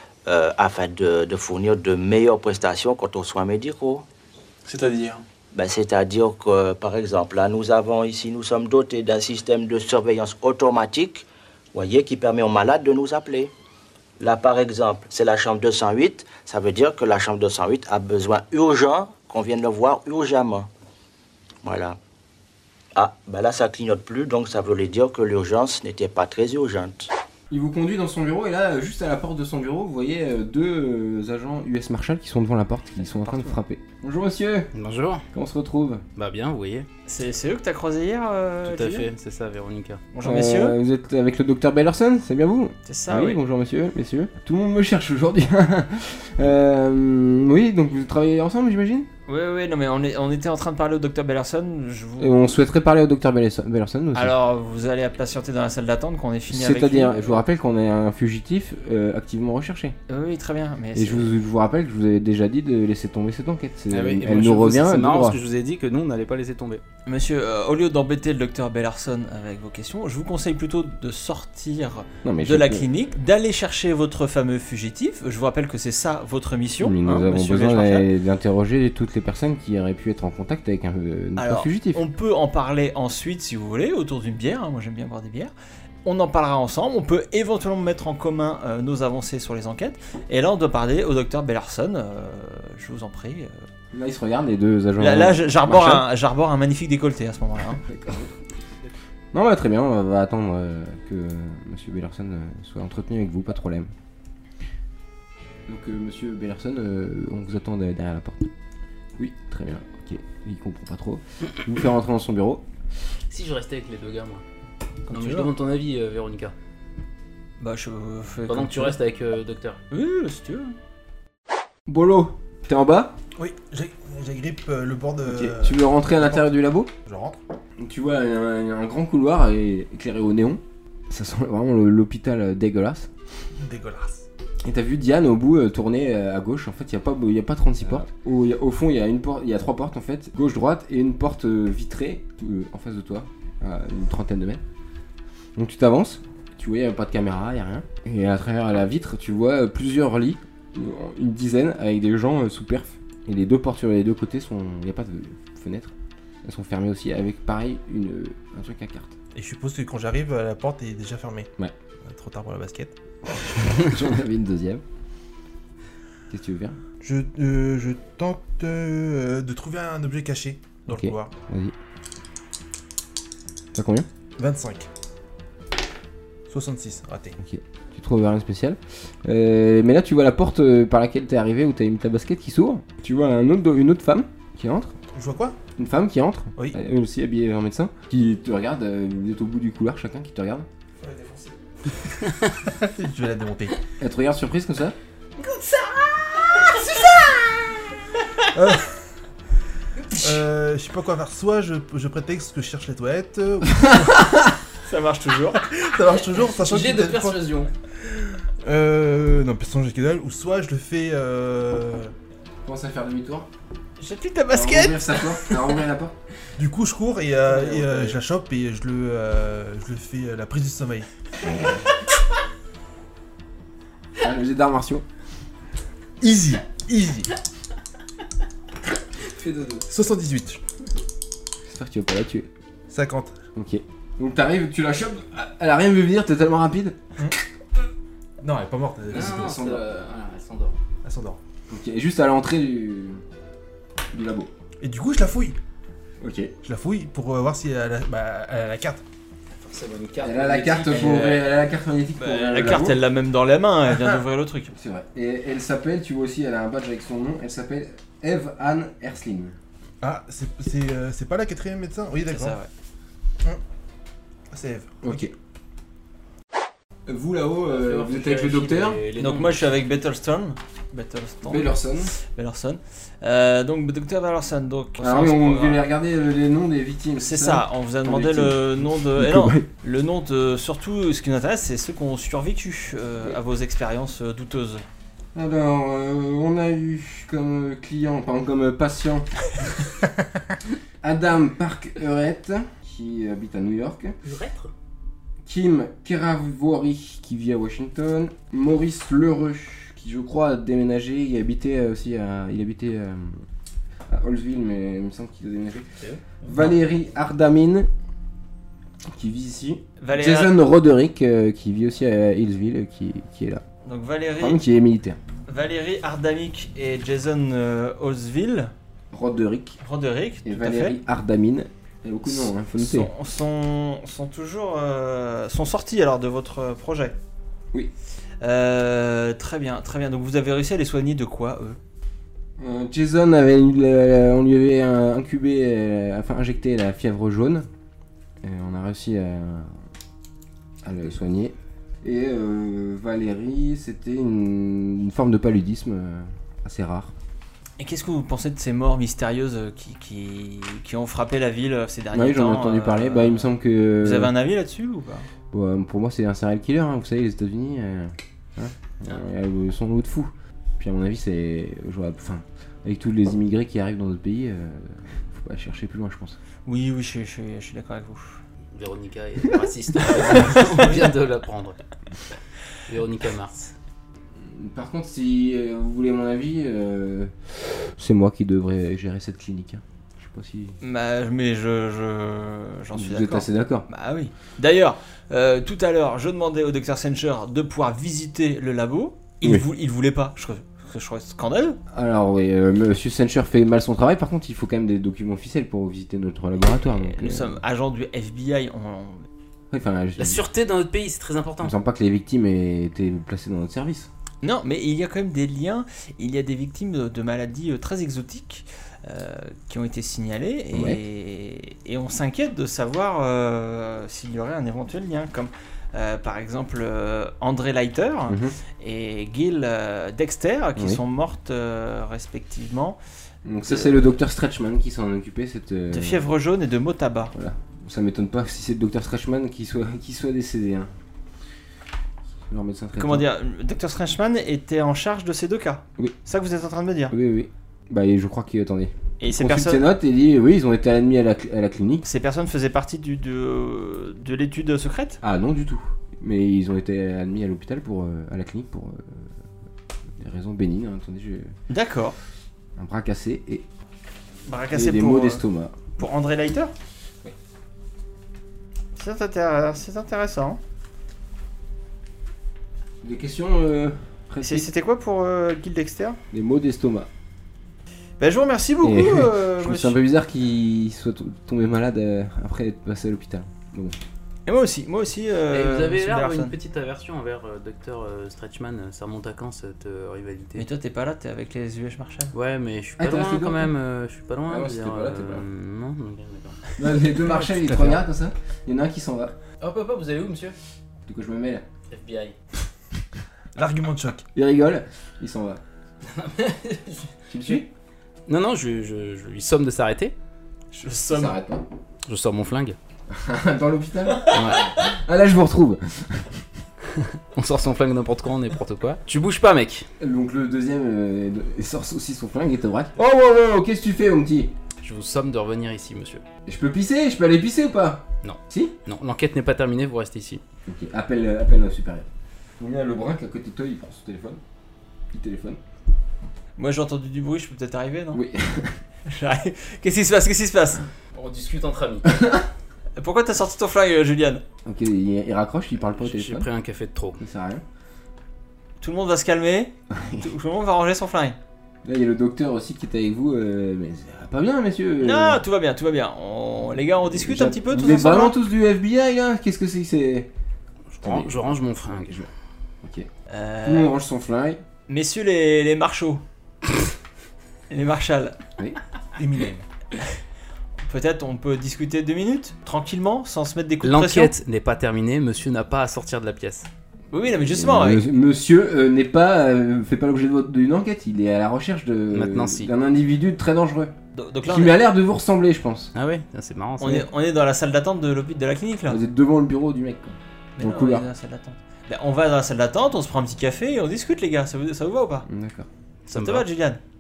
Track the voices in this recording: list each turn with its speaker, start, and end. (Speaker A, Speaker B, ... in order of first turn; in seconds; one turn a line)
Speaker A: 0.3-4.0
Speaker A: 5.5-13.5
Speaker A: 14.2-20.7
Speaker A: 21.6-22.0
Speaker A: 22.9-27.1
Speaker B: 27.5-34.7
Speaker C: 33.0-33.6
Speaker D: 34.7-35.2
Speaker B: 35.3-36.0
Speaker D: 36.2-36.9
Speaker C: 37.1-39.1
Speaker D: 38.6-40.0
Speaker C: 40.1-40.8
Speaker B: 40.2-49.1
Speaker C: 42.9-43.4
Speaker C: 49.3-52.4
Speaker B: 52.2-54.4
Speaker C: 54.1-57.4
Speaker B: 56.5-60.0
Speaker C: 60.1-61.3
Speaker B: 60.9-65.4
Speaker D: 63.9-66.8
Speaker C: 67.1-78.1
Speaker B: 72.2-72.9
Speaker B: 76.8-82.0
Speaker C: 81.4-85.5
Speaker C: 86.0-93.7
Speaker B: 93.9-96.1
Speaker C: 95.0-97.8
Speaker B: 97.8-98.3
Speaker B: 99.3-103.9
Speaker B: 105.7-108.5
Speaker B: 109.2-112.6
Speaker D: 113.3-114.4
Speaker C: 115.1-115.5
Speaker D: 115.1-116.5
Speaker C: 117.6-119.0
Speaker D: 118.5-119.8
Speaker C: 119.9-120.8
Speaker B: 121.9-123.2
Speaker E: 123.4-126.5
Speaker B: 125.2-126.9
Speaker E: 127.0-127.4
Speaker B: 127.8-133.1
Speaker E: 133.6-134.3
Speaker B: 134.6-144.6
Speaker B: 145.6-155.9
Speaker B: 156.4-159.1
Speaker E: 159.3-161.5
Speaker E: 162.0-162.9
Speaker B: 163.4-164.8
Speaker B: 166.3-166.8
Speaker E: 167.0-171.3
Speaker B: 170.9-171.7
Speaker B: 173.8-174.1
Speaker E: 174.4-174.9
Speaker E: 176.5-177.4
Speaker B: 177.4-184.9
Speaker E: 185.1-185.6
Speaker B: 185.8-190.7
Speaker E: 191.0-193.8
Speaker B: 194.0-195.0
Speaker D: 195.4-197.2
Speaker E: 198.5-198.9
Speaker E: 200.2-204.4
Speaker B: 203.7-204.4
Speaker C: 204.8-205.8
Speaker E: 205.9-207.4
Speaker D: 206.3-207.7
Speaker E: 208.1-212.1
Speaker B: 212.6-213.5
Speaker C: 214.0-215.6
Speaker B: 214.5-216.2
Speaker E: 216.6-221.1
Speaker B: 217.5-218.1
Speaker B: 221.4-221.8
Speaker B: 224.2-225.1
Speaker E: 226.2-227.3
Speaker D: 229.2-229.8
Speaker E: 229.9-230.6
Speaker B: 231.7-232.5
Speaker E: 232.9-233.3
Speaker B: 233.6-237.4
Speaker E: 238.4-239.8
Speaker D: 239.1-240.8
Speaker B: 239.2-239.8
Speaker E: 241.0-241.4
Speaker B: 241.7-243.2
Speaker B: 244.1-244.5
Speaker E: 244.8-245.6
Speaker B: 246.2-246.5
Speaker E: 246.6-249.0
Speaker D: 249.5-251.4
Speaker B: 250.2-253.0
Speaker C: 250.9-251.4
Speaker C: 252.2-254.7
Speaker E: 253.9-254.2
Speaker B: 254.7-259.6
Speaker E: 260.0-262.6
Speaker C: 262.3-262.7
Speaker E: 264.5-265.3
Speaker B: 265.0-265.3
Speaker B: 267.1-269.0
Speaker D: 267.7-269.7
Speaker C: 269.2-275.8
Speaker B: 271.4-272.1
Speaker B: 275.0-279.7
Speaker C: 277.2-284.9
Speaker B: 285.4-289.3
Speaker B: 291.0-294.1
Speaker D: 294.2-294.7
Speaker B: 295.5-303.4
Speaker B: 304.1-305.9
Speaker B: 306.4-307.9
Speaker B: 309.1-313.6
Speaker C: 310.0-310.5
Speaker C: 313.9-314.6
Speaker B: 314.4-315.2
Speaker C: 315.5-318.7
Speaker B: 319.1-319.8
Speaker C: 319.8-321.0
Speaker B: 320.4-323.1
Speaker C: 322.3-327.2
Speaker C: 328.4-331.8
Speaker B: 332.6-337.7
Speaker B: 338.4-339.8
Speaker B: 340.8-347.1
Speaker C: 347.8-355.3
Speaker B: 352.1-354.3
Speaker B: 355.5-366.4
Speaker C: 366.7-368.4
Speaker D: 368.7-371.8
Speaker B: 370.0-370.6
Speaker D: 372.9-373.7
Speaker B: 374.4-380.8
Speaker C: 380.8-391.8
Speaker B: 382.9-383.9
Speaker B: 391.9-397.6
Speaker C: 397.0-399.3
Speaker B: 399.7-400.4
Speaker D: 400.2-401.8
Speaker B: 401.6-404.1
Speaker C: 404.4-423.0
Speaker B: 410.7-411.0
Speaker B: 418.3-418.6
Speaker B: 420.8-421.0
Speaker B: 423.4-426.3
Speaker C: 423.7-424.0
Speaker C: 425.9-427.3
Speaker B: 427.3-430.9
Speaker B: 432.5-433.3
Speaker C: 433.0-437.1
Speaker B: 437.1-442.1
Speaker C: 439.2-439.9
Speaker C: 442.0-445.2
Speaker B: 445.2-449.3
Speaker B: 450.2-451.5
Speaker C: 451.7-452.1
Speaker B: 452.8-453.7
Speaker C: 454.5-455.4
Speaker B: 454.7-455.8
Speaker C: 456.0-456.7
Speaker C: 459.0-460.6
Speaker B: 463.0-464.7
Speaker C: 464.4-466.2
Speaker B: 466.3-467.1
Speaker C: 468.2-470.0
Speaker B: 468.8-474.0
Speaker C: 474.5-476.6
Speaker D: 475.5-480.7
Speaker C: 480.6-482.3
Speaker D: 482.3-488.0
Speaker B: 483.0-483.7
Speaker B: 484.5-485.5
Speaker B: 486.8-489.4
Speaker D: 489.6-490.6
Speaker B: 491.1-491.6
Speaker D: 491.9-492.4
Speaker E: 493.6-494.2
Speaker B: 494.4-495.6
Speaker D: 496.0-497.1
Speaker B: 497.3-497.7
Speaker D: 498.3-500.1
Speaker C: 500.7-501.4
Speaker B: 501.1-501.6
Speaker D: 502.1-502.8
Speaker B: 503.1-506.4
Speaker D: 504.3-504.8
Speaker D: 506.9-509.9
Speaker B: 510.0-514.5
Speaker D: 514.8-516.2
Speaker B: 516.5-518.8
Speaker D: 518.2-520.4
Speaker B: 520.7-522.1
Speaker B: 522.6-524.4
Speaker B: 525.1-525.6
Speaker C: 526.6-528.2
Speaker B: 528.1-528.8
Speaker C: 529.1-530.9
Speaker D: 531.1-532.3
Speaker B: 532.0-532.5
Speaker C: 533.0-534.4
Speaker B: 534.6-536.5
Speaker D: 536.0-537.2
Speaker B: 537.2-537.6
Speaker C: 538.8-541.4
Speaker B: 539.9-540.3
Speaker B: 541.8-545.4
Speaker C: 545.0-548.4
Speaker B: 547.0-550.3
Speaker D: 550.9-552.3
Speaker B: 551.0-551.5
Speaker B: 552.8-553.1
Speaker C: 553.3-553.9
Speaker B: 553.6-554.6
Speaker C: 554.9-556.2
Speaker C: 557.7-558.4
Speaker E: 559.2-559.6
Speaker C: 560.9-564.3
Speaker D: 563.8-566.7
Speaker C: 567.1-568.1
Speaker B: 567.5-573.9
Speaker D: 572.1-572.7
Speaker C: 574.1-574.8
Speaker B: 574.5-575.9
Speaker D: 575.9-577.1
Speaker C: 576.8-579.0
Speaker B: 578.9-581.1
Speaker C: 580.6-585.3
Speaker B: 585.3-585.7
Speaker D: 586.1-586.5
Speaker C: 586.1-586.8